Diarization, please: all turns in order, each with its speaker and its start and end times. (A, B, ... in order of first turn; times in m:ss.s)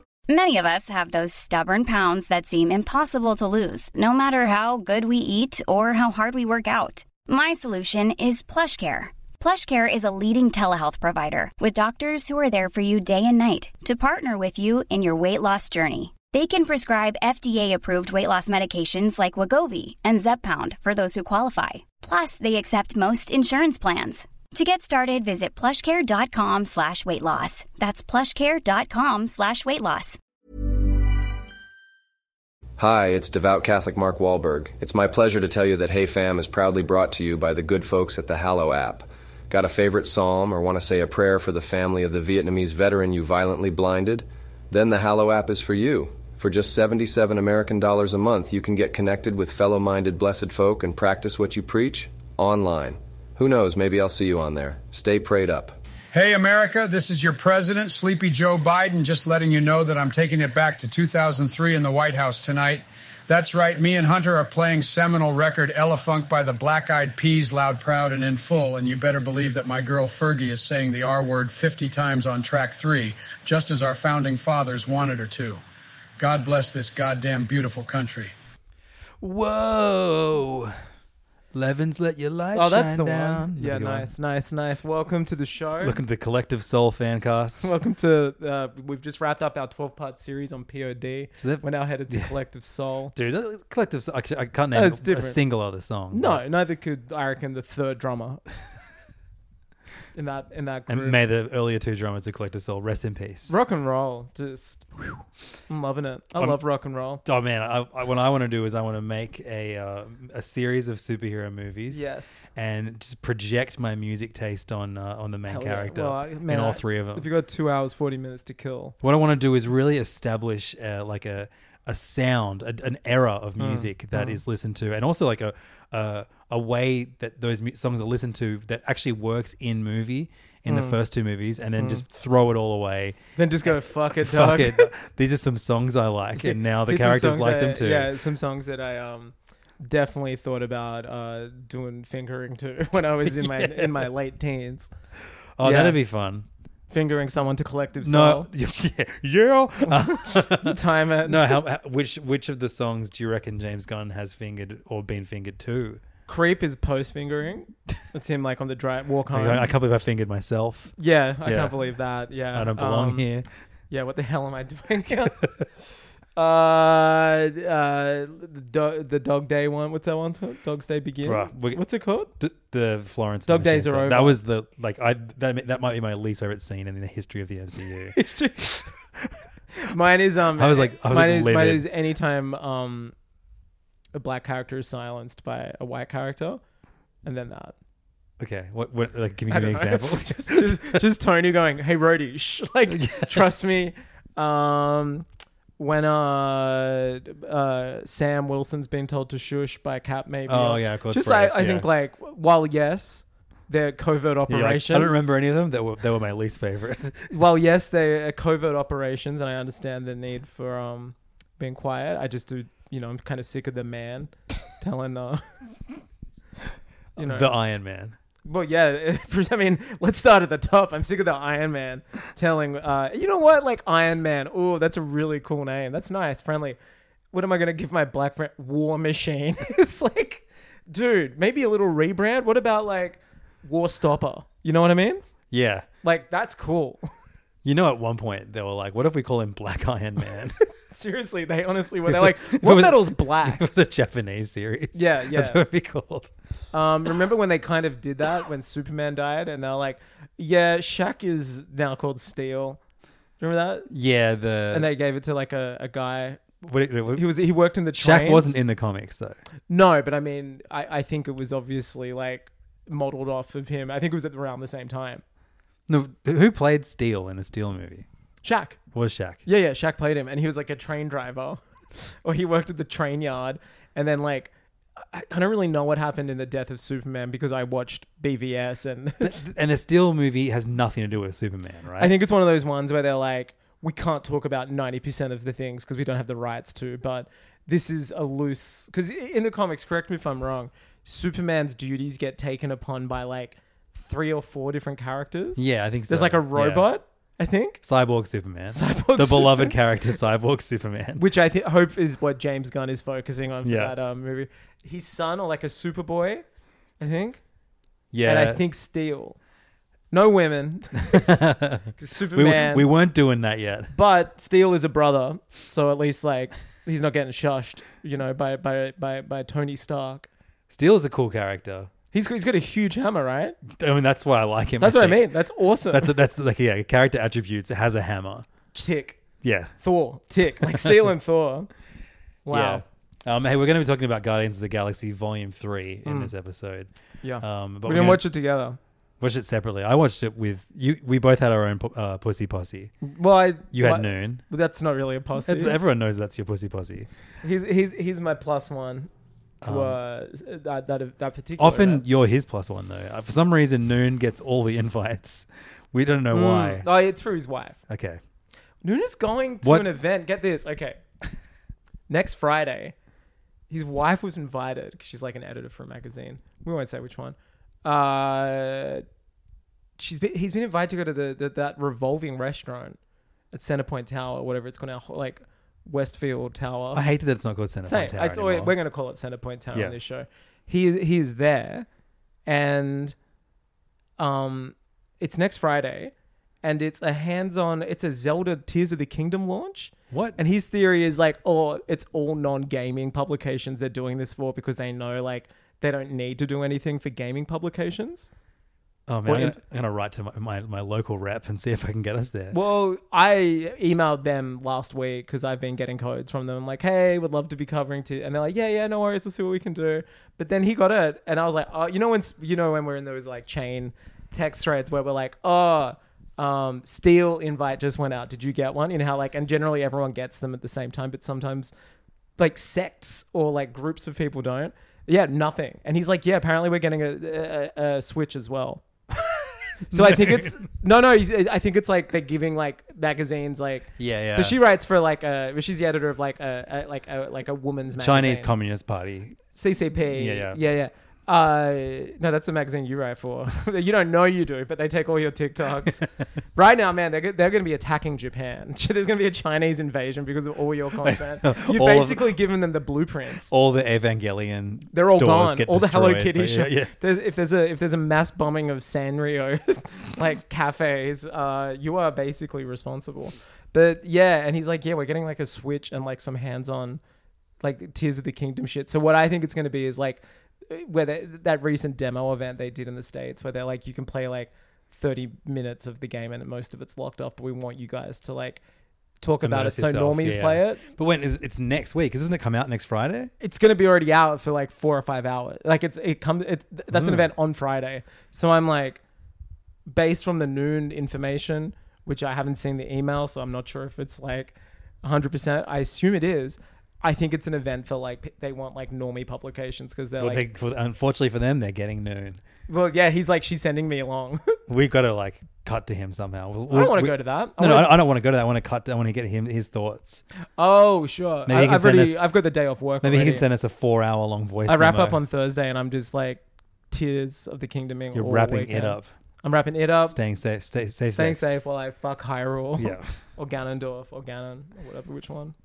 0:00.3-0:30.2 A
0:32.8-0:55.8 B
0:56.1-1:15.6 C
1:16.2-1:18.3 C
1:19.2-1:20.8 D
1:21.5-1:24.1 D
1:22.5-1:26.0 E
1:25.8-1:27.7 D
1:27.6-1:33.1 E
1:31.4-1:32.3 D
1:33.1-1:36.4 D
1:34.7-1:35.4 E
1:36.1-1:38.4 E
1:40.1-1:41.2 E
1:40.9-1:43.5 D
1:43.5-1:47.2 E
1:47.2-1:57.3 D
1:51.9-1:52.5 E
1:55.5-1:59.0 E
1:59.0-2:18.1 D
2:03.6-2:04.4 E
2:10.7-2:11.0 E
2:11.8-2:12.0 E
2:13.4-2:14.9 E
2:16.4-2:24.9 E
2:23.2-2:24.0 D
2:25.6-2:26.4 D
2:25.6-2:26.0 E
2:26.9-2:28.5 E
2:28.0-2:36.0 D
2:29.9-2:31.6 E
2:36.3-2:39.7 E
2:39.3-2:40.9 D
2:41.0-2:43.2 E
2:41.4-2:41.8 D
2:42.5-2:43.5 D
2:43.9-2:45.4 E
2:46.4-2:52.3 E
2:51.2-2:51.8 D
2:52.4-2:58.2 D
2:53.5-2:54.4 E
2:58.1-2:58.9 E
2:59.7-3:03.1 E
3:00.6-3:01.9 D
3:04.1-3:06.6 E
3:07.2-3:07.7 E
3:08.4-3:11.0 D
3:09.5-3:15.3 E
3:12.9-3:13.4 D
3:15.8-3:25.2 E
3:20.5-3:21.9 D
3:24.5-3:27.3 D
3:27.3-3:35.4 E
3:37.2-3:38.1 D
3:37.2-3:37.5 E
3:38.4-3:46.8 E
3:47.3-3:55.2 E
3:55.5-3:55.9 D
3:56.0-3:57.0 E
3:57.6-4:00.6 D
4:00.9-4:03.7 E
4:02.1-4:06.3 D
4:04.9-4:05.6 E
4:06.7-4:12.8 E
4:13.4-4:13.9 E
4:13.9-4:14.9 D
4:14.7-4:16.4 E
4:16.6-4:17.4 D
4:17.1-4:18.6 E
4:17.9-4:19.4 D
4:19.7-4:25.2 E
4:25.9-4:28.0 D
4:28.4-4:28.8 E
4:28.9-4:29.4 D
4:29.4-4:39.4 E
4:39.2-4:42.1 D
4:42.0-4:57.8 E
4:55.6-4:56.9 D
4:57.8-5:01.2 D
4:58.7-4:59.8 E
5:01.2-5:06.4 E
5:03.6-5:03.9 D
5:07.0-5:07.4 E
5:08.1-5:08.6 D
5:08.2-5:09.4 E
5:10.1-5:11.4 E
5:11.0-5:13.9 D
5:12.0-5:12.9 E
5:13.9-5:20.3 E
5:20.7-5:21.9 D
5:22.1-5:23.6 E
5:23.7-5:25.3 D
5:24.8-5:26.1 E
5:25.9-5:28.5 D
5:28.7-5:29.2 E
5:29.4-5:29.7 D
5:29.8-5:31.7 E
5:32.4-5:32.8 E
5:32.5-5:36.9 D
5:36.0-5:36.3 E
5:37.2-5:38.8 E
5:37.4-5:38.2 D
5:39.2-5:42.9 D
5:43.0-5:45.8 E
5:43.7-5:44.4 D
5:45.4-5:47.1 D
5:47.4-5:49.1 E
5:49.6-5:50.0 D
5:49.6-5:52.0 E
5:51.6-5:56.9 D
5:56.3-5:57.8 E
5:57.9-5:58.2 D
5:58.8-6:01.0 E
5:59.6-5:59.9 D
6:02.1-6:02.9 E
6:03.7-6:09.0 E
6:10.0-6:13.0 E
6:13.5-6:17.0 E
6:16.9-6:18.7 D
6:17.8-6:21.9 E
6:22.4-6:23.1 E
6:24.2-6:26.1 E
6:26.6-6:38.3 E
6:30.1-6:30.4 D
6:39.1-6:42.6 D
6:39.2-6:39.6 E
6:42.5-7:01.7 E
7:02.4-7:08.8 E
7:09.8-7:10.6 D
7:09.9-7:18.5 E
7:14.0-7:14.6 D
7:18.0-7:19.4 D
7:19.5-7:26.0 E
7:20.1-7:20.6 D
7:26.6-7:33.5 E
7:31.0-7:32.3 D
7:33.5-7:36.9 D
7:34.9-7:47.0 E
7:47.6-7:58.6 E
7:59.2-8:00.8 E
7:59.4-8:03.3 D
8:03.4-8:09.0 E
8:06.9-8:07.3 D
8:09.8-8:20.4 E
8:20.2-8:22.4 D
8:22.7-8:24.5 E
8:24.7-8:30.2 D
8:26.7-8:28.0 E
8:30.6-8:33.4 E
8:31.4-8:32.2 D
8:33.0-8:35.2 D
8:34.6-8:40.2 E
8:38.1-8:39.1 D
8:40.1-8:41.5 D
8:41.1-8:45.5 E
8:42.8-8:43.1 D